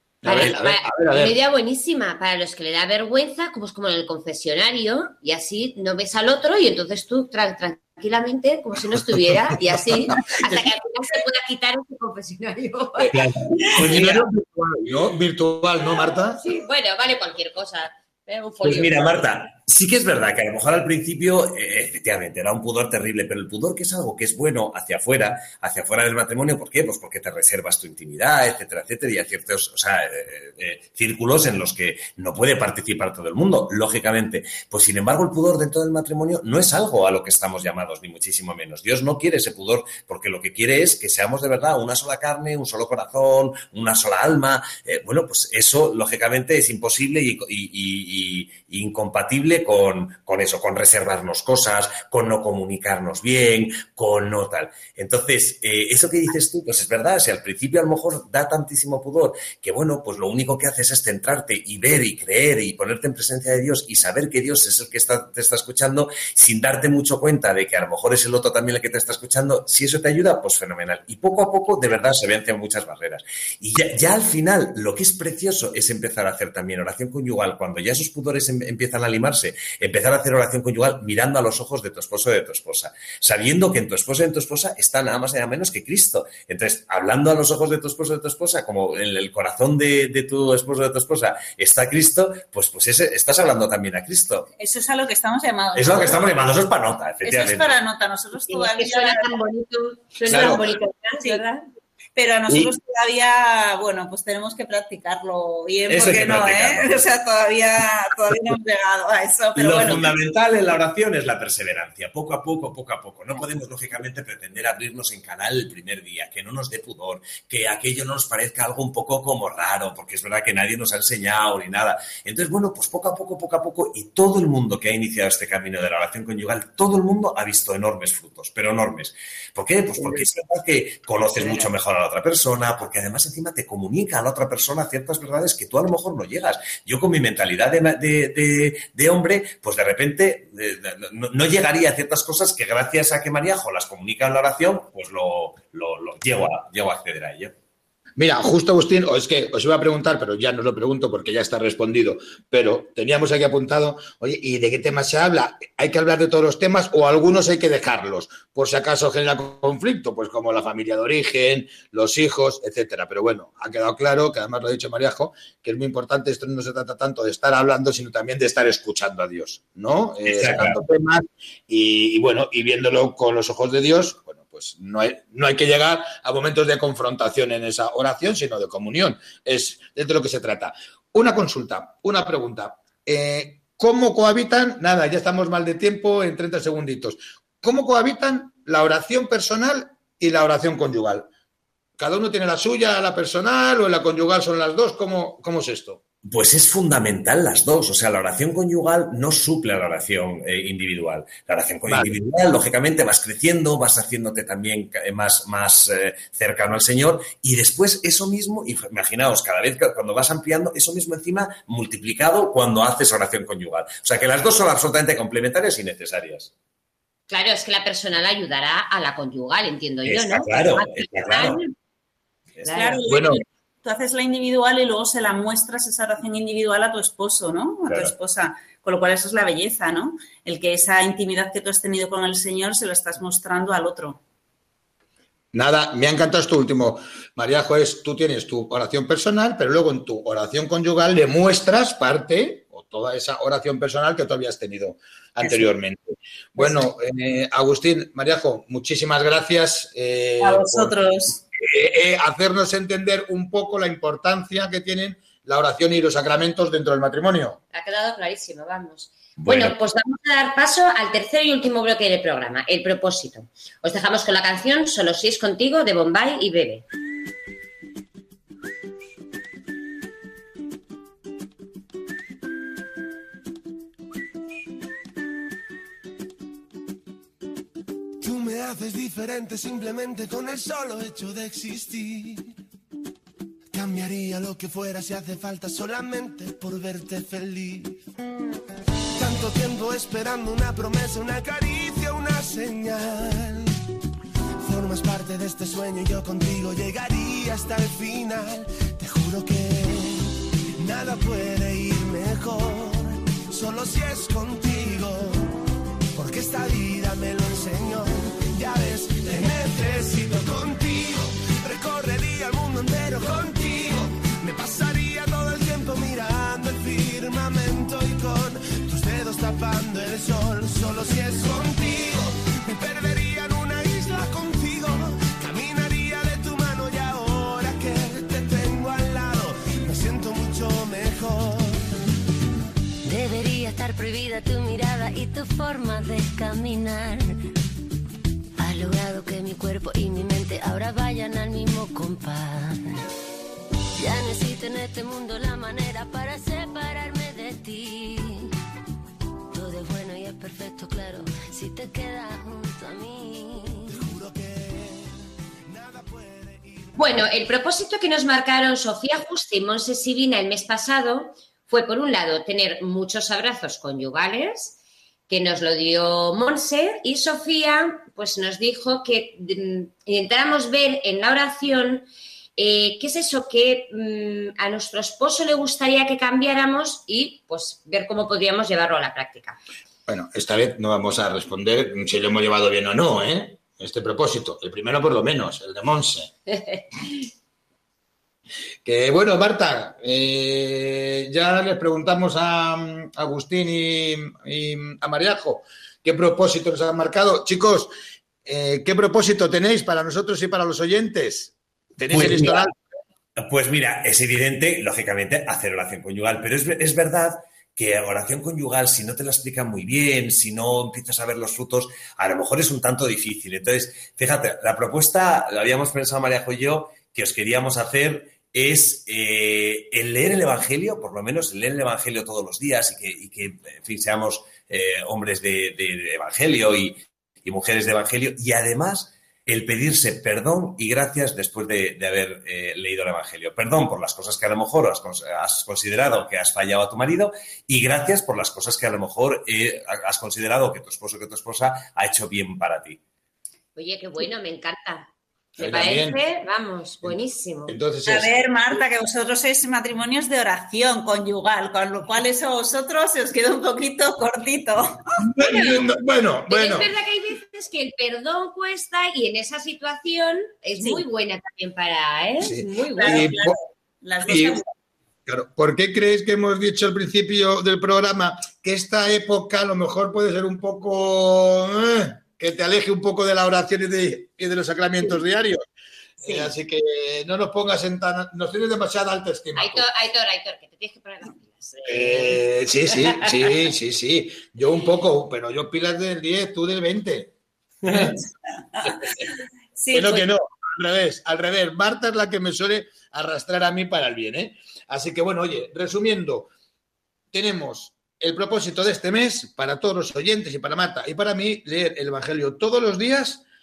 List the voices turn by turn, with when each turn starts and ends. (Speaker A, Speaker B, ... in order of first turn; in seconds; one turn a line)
Speaker A: 0.2-1.4
Speaker B: 0.2-13.2
Speaker C: 13.1-13.4
Speaker A: 13.6-16.4
Speaker B: 13.7-14.2
Speaker B: 16.3-19.2
Speaker C: 18.6-94.5
Speaker D: 94.6-96.3
Speaker C: 95.8-97.8
Speaker D: 97.2-99.3
Speaker B: 98.5-101.6
Speaker C: 100.3-100.6
Speaker A: 100.3-100.6
Speaker D: 102.2-110.1
Speaker C: 105.9-107.0
Speaker C: 109.6-147.5
Speaker A: 148.2-191.3
Speaker C: 170.2-170.8
Speaker A: 192.0-196.0
Speaker C: 196.3-216.5
Speaker A: 201.9-202.2
Speaker B: 217.3-221.7
Speaker C: 220.1-221.6
Speaker B: 222.6-223.0
Speaker D: 222.7-234.2
Speaker A: 223.1-223.4
Speaker C: 227.9-228.1
Speaker A: 235.5-250.9
Speaker D: 245.4-245.7
Speaker D: 246.6-246.8
Speaker D: 250.4-251.4
Speaker A: 251.5-257.6
Speaker B: 257.7-266.9
Speaker C: 259.4-259.8
Speaker E: 278.2-282.5
Speaker E: 283.7-288.0
Speaker E: 289.2-293.8
Speaker E: 294.6-305.5
Speaker E: 306.1-331.9
Speaker F: 333.0-337.4
Speaker F: 338.6-342.9
Speaker F: 343.9-348.5
Speaker F: 349.5-354.0
Speaker E: 353.9-355.1
Speaker E: 355.7-357.3
Speaker B: 357.0-364.8
Speaker B: 365.3-379.6
Speaker A: 380.1-386.3
Speaker B: 386.5-387.2
Speaker A: 388.8-397.9
Speaker A: 398.4-402.7
Speaker C: 402.1-402.7
Speaker C: 403.4-443.0
Speaker B: 443.8-447.8
Speaker A: 445.6-446.2
Speaker A: 447.0-448.3
Speaker D: 448.1-455.2
Speaker A: 455.2-456.9
Speaker B: 455.4-455.8
Speaker B: 456.5-463.2
Speaker D: 460.8-461.0
Speaker A: 462.4-463.6
Speaker D: 463.0-464.7
Speaker A: 464.2-464.6
Speaker A: 465.3-475.6
Speaker A: 476.2-479.9
Speaker B: 479.6-482.4
Speaker A: 481.9-487.3
Speaker B: 483.0-483.3
Speaker A: 487.9-488.2
Speaker D: 487.9-488.2
Speaker D: 488.7-489.2
Speaker D: 489.8-490.3
Speaker A: 489.9-496.5
Speaker A: 497.3-503.4